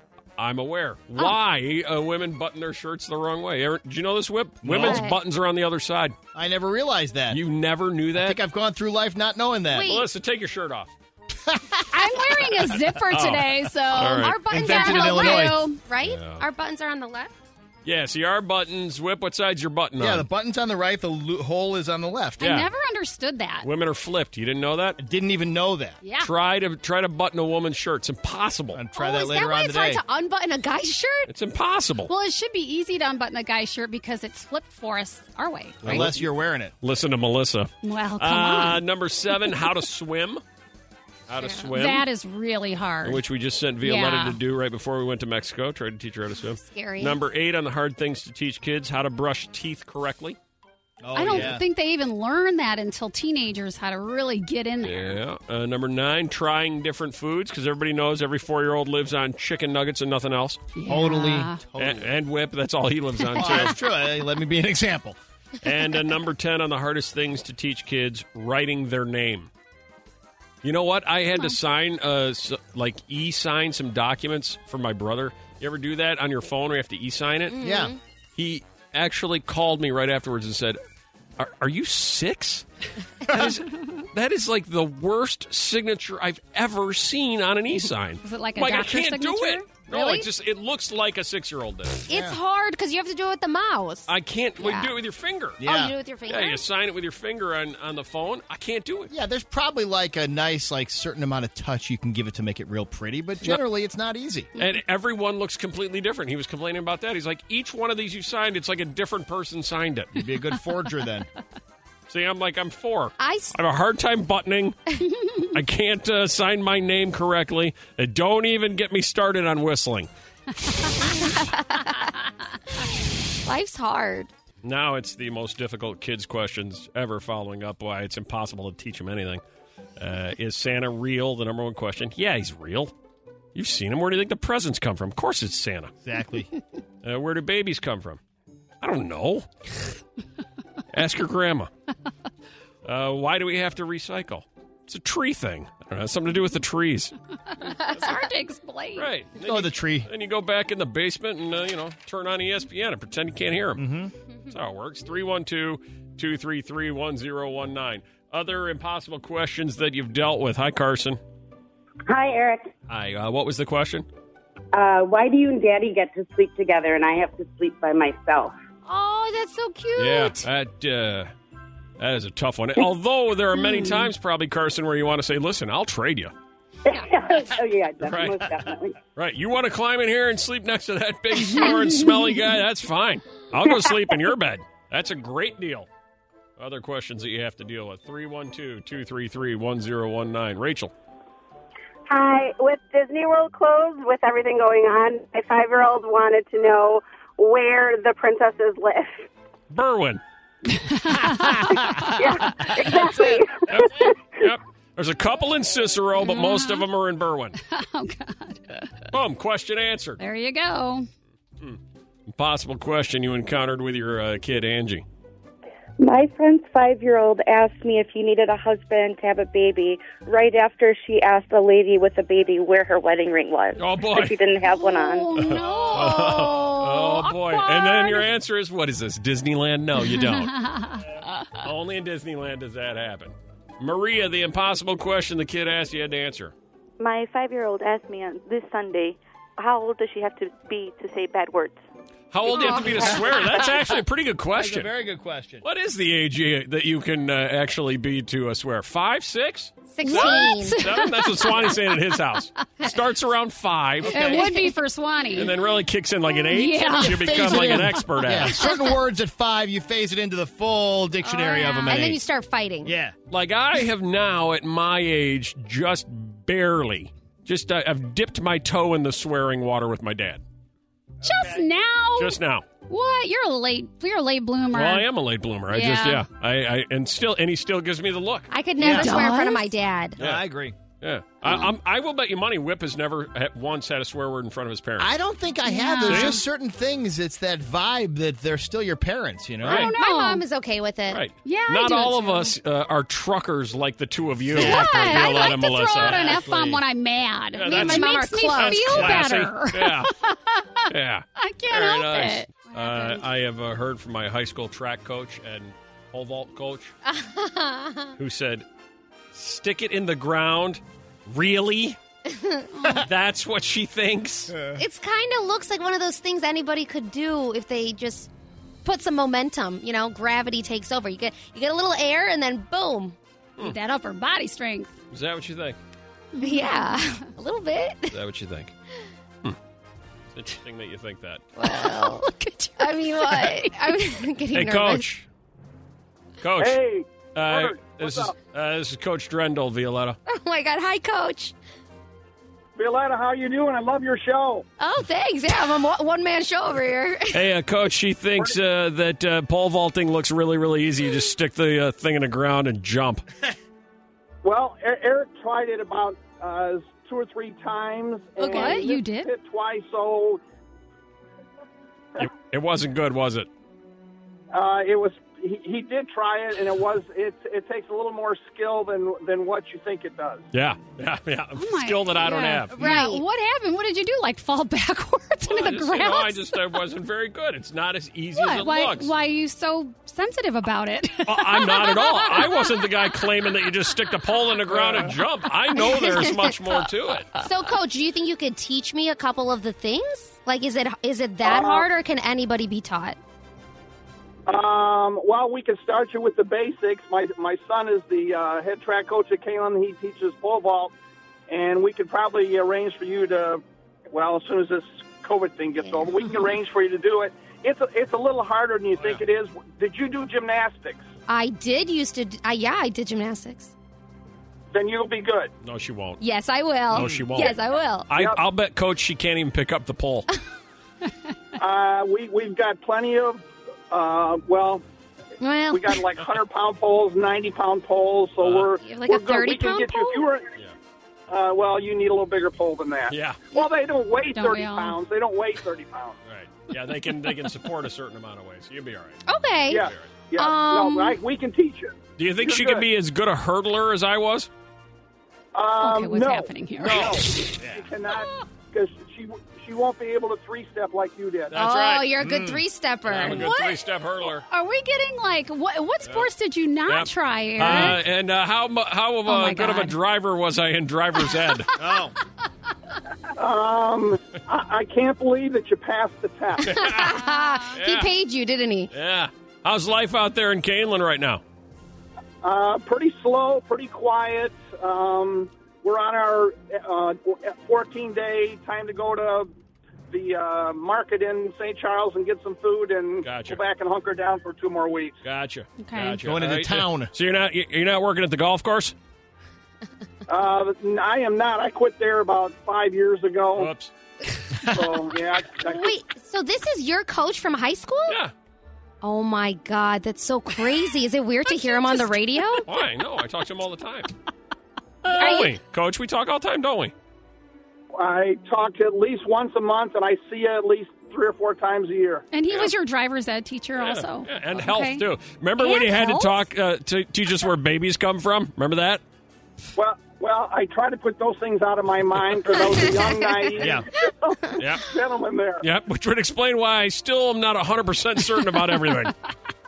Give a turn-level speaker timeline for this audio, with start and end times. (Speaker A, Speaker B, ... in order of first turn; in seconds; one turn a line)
Speaker A: 0.4-6.1
Speaker B: 4.6-5.1
Speaker C: 4.8-5.2
Speaker B: 6.3-7.4
Speaker A: 7.3-8.4
Speaker B: 8.1-9.9
Speaker C: 9.7-10.1
Speaker A: 9.9-10.9
Speaker B: 11.5-12.2
Speaker D: 11.9-15.8
Speaker A: 13.1-14.4
Speaker C: 14.1-17.3
Speaker B: 14.5-15.6
Speaker A: 16.0-16.4
Speaker A: 17.9-20.3
Speaker B: 20.0-22.4
Speaker A: 22.4-22.7
Speaker D: 22.4-23.7
Speaker A: 23.6-25.0
Speaker B: 25.0-26.0
Speaker D: 26.0-26.3
Speaker A: 26.2-28.8
Speaker B: 28.7-30.0
Speaker C: 29.0-31.3
Speaker A: 31.3-32.1
Speaker D: 32.1-36.0
Speaker B: 35.8-36.7
Speaker A: 35.8-36.2
Speaker A: 36.8-40.4
Speaker D: 37.8-38.8
Speaker A: 41.3-42.0
Speaker C: 41.4-41.7
Speaker D: 41.7-43.2
Speaker A: 43.0-50.4
Speaker D: 43.8-44.4
Speaker C: 46.4-47.2
Speaker B: 51.0-51.6
Speaker D: 51.1-55.2
Speaker A: 51.3-51.5
Speaker A: 54.8-60.6
Speaker D: 60.8-61.6
Speaker B: 60.9-62.1
Speaker A: 61.8-63.8
Speaker B: 63.4-65.2
Speaker A: 65.6-69.5
Speaker A: 70.6-77.6
Speaker C: 77.5-78.0
Speaker B: 77.6-78.0
Speaker A: 78.4-80.8
Speaker A: 81.4-82.6
Speaker A: 83.3-92.0
Speaker D: 88.2-89.7
Speaker C: 89.9-90.2
Speaker C: 92.1-94.9
Speaker B: 92.1-92.4
Speaker A: 94.1-95.6
Speaker B: 95.6-96.0
Speaker C: 95.6-96.6
Speaker A: 96.3-99.1
Speaker B: 99.1-104.5
Speaker A: 104.6-110.1
Speaker B: 110.1-111.3
Speaker A: 112.1-114.8
Speaker C: 113.2-113.6
Speaker A: 115.5-120.1
Speaker C: 121.0-122.1
Speaker C: 123.5-124.3
Speaker A: 124.6-129.4
Speaker A: 130.0-132.9
Speaker A: 133.6-135.9
Speaker B: 136.0-136.5
Speaker A: 137.0-138.2
Speaker A: 138.8-139.5
Speaker A: 140.9-141.7
Speaker A: 142.8-147.1
Speaker D: 147.6-149.1
Speaker A: 149.0-153.8
Speaker B: 149.4-150.1
Speaker B: 153.8-154.1
Speaker A: 154.5-161.2
Speaker E: 162.1-162.7
Speaker A: 162.9-164.1
Speaker E: 164.7-168.5
Speaker C: 168.9-170.4
Speaker A: 170.0-171.3
Speaker A: 172.0-176.3
Speaker D: 173.6-174.1
Speaker E: 176.9-179.0
Speaker A: 178.0-178.6
Speaker A: 179.1-185.9
Speaker A: 186.6-190.9
Speaker E: 192.1-199.3
Speaker A: 199.7-200.2
Speaker D: 200.7-202.2
Speaker B: 201.3-202.0
Speaker E: 202.1-204.2
Speaker B: 202.8-203.4
Speaker A: 203.7-207.6
Speaker D: 206.2-206.8
Speaker D: 207.6-208.9
Speaker A: 209.1-210.2
Speaker D: 210.2-211.1
Speaker A: 211.6-215.1
Speaker F: 216.0-225.4
Speaker A: 223.8-224.4
Speaker D: 224.7-228.3
Speaker A: 225.3-230.5
Speaker D: 230.0-231.6
Speaker A: 231.6-236.5
Speaker G: 237.0-241.8
Speaker A: 242.3-244.9
Speaker C: 242.5-243.5
Speaker D: 242.6-243.1
Speaker B: 244.6-245.6
Speaker A: 245.6-254.4
Speaker C: 249.9-250.8
Speaker D: 250.0-251.8
Speaker B: 254.0-254.4
Speaker D: 254.1-255.5
Speaker C: 254.4-254.8
Speaker A: 255.3-258.6
Speaker D: 256.4-258.0
Speaker C: 257.0-258.1
Speaker B: 258.2-262.2
Speaker C: 261.3-262.9
Speaker D: 261.4-261.9
Speaker B: 262.8-263.1
Speaker A: 263.3-270.4
Speaker D: 271.2-272.4
Speaker A: 272.2-272.6
Speaker D: 272.9-275.1
Speaker A: 274.7-278.5
Speaker D: 275.7-276.3
Speaker C: 278.5-280.2
Speaker D: 278.8-279.7
Speaker B: 278.8-279.3
Speaker B: 280.2-280.8
Speaker A: 280.2-280.4
Speaker A: 281.0-285.1
Speaker B: 285.0-289.9
Speaker D: 285.6-286.4
Speaker A: 286.1-286.4
Speaker A: 289.6-289.9
Speaker D: 289.6-290.4
Speaker C: 289.8-291.2
Speaker A: 291.1-296.4
Speaker D: 291.4-292.5
Speaker B: 294.5-296.8
Speaker D: 294.6-303.2
Speaker A: 297.6-300.1
Speaker C: 297.6-299.2
Speaker A: 300.9-306.9
Speaker C: 307.1-308.1
Speaker A: 308.2-308.6
Speaker A: 309.3-312.0
Speaker C: 312.3-312.6
Speaker D: 312.7-313.1
Speaker A: 312.9-314.6
Speaker B: 314.5-314.8
Speaker C: 314.8-318.3
Speaker C: 318.8-323.1
Speaker D: 323.6-324.9
Speaker A: 325.1-325.8
Speaker D: 326.4-327.0
Speaker C: 326.4-328.2
Speaker A: 328.1-328.7
Speaker A: 330.3-331.4
Speaker C: 331.6-332.3
Speaker D: 331.6-333.7
Speaker C: 332.8-335.0
Speaker A: 334.5-335.3
Speaker A: 336.4-336.8
Speaker H: 336.6-338.4
Speaker A: 337.3-340.2
Speaker C: 340.3-341.6
Speaker H: 342.8-344.6
Speaker C: 344.8-347.5
Speaker A: 347.3-353.2
Speaker H: 354.4-360.4
Speaker D: 358.4-359.3
Speaker A: 362.2-363.5
Speaker H: 364.5-370.5
Speaker A: 370.5-372.8
Speaker D: 371.6-376.6
Speaker C: 372.8-373.2
Speaker A: 375.5-379.1
Speaker D: 378.3-382.9
Speaker A: 381.3-387.3
Speaker C: 386.0-386.5
Speaker C: 387.4-393.2
Speaker H: 391.4-391.9
Speaker H: 394.5-400.9
Speaker H: 401.5-411.1
Speaker C: 405.8-406.6
Speaker A: 409.0-409.2
Speaker C: 411.3-413.7
Speaker H: 414.7-415.5
Speaker A: 415.6-416.2
Speaker C: 416.2-418.1
Speaker A: 416.9-420.3
Speaker B: 417.0-417.2
Speaker H: 418.1-418.4
Speaker H: 421.6-424.8
Speaker C: 425.4-426.0
Speaker H: 425.7-430.5
Speaker A: 428.4-428.7
Speaker C: 428.8-430.3
Speaker H: 431.3-436.2
Speaker A: 433.1-433.4
Speaker D: 434.3-435.0
Speaker A: 436.3-439.2
Speaker C: 439.3-441.2
Speaker H: 439.7-442.9
Speaker A: 442.2-444.5
Speaker H: 445.5-451.6
Speaker D: 445.8-447.5
Speaker A: 446.8-447.8
Speaker A: 451.5-452.1
Speaker C: 451.5-453.5
Speaker B: 452.2-452.6
Speaker A: 453.1-454.4
Speaker D: 453.2-453.8
Speaker D: 454.4-458.0
Speaker A: 456.9-461.7
Speaker B: 457.6-457.9
Speaker D: 459.3-460.0
Speaker B: 461.8-462.1
Speaker H: 463.4-466.7
Speaker A: 466.6-467.2
Speaker C: 466.7-468.9
Speaker D: 467.2-467.6
Speaker A: 467.7-468.1
Speaker A: 468.9-471.4
Speaker H: 472.4-479.5
Speaker H: 480.1-485.2
Speaker A: 483.2-483.6
Speaker A: 485.2-488.9
Speaker D: 485.8-486.2
Speaker B: 486.2-487.1
Speaker H: 490.3-493.7
Speaker A: 493.6-493.9
Speaker H: 494.7-495.9
Speaker C: 495.6-498.2
Speaker A: 498.1-498.3
Speaker C: 499.0-502.6
Speaker D: 501.5-502.6
Speaker A: 502.7-504.1
Speaker A: 505.0-506.9
Speaker D: 505.1-505.5
Speaker H: 507.9-512.3
Speaker D: 512.3-515.0
Speaker A: 513.8-519.0
Speaker D: 515.6-516.4
Speaker H: 519.8-525.6
Speaker B: 523.6-523.9
Speaker A: 524.6-524.9
Speaker A: 525.6-529.1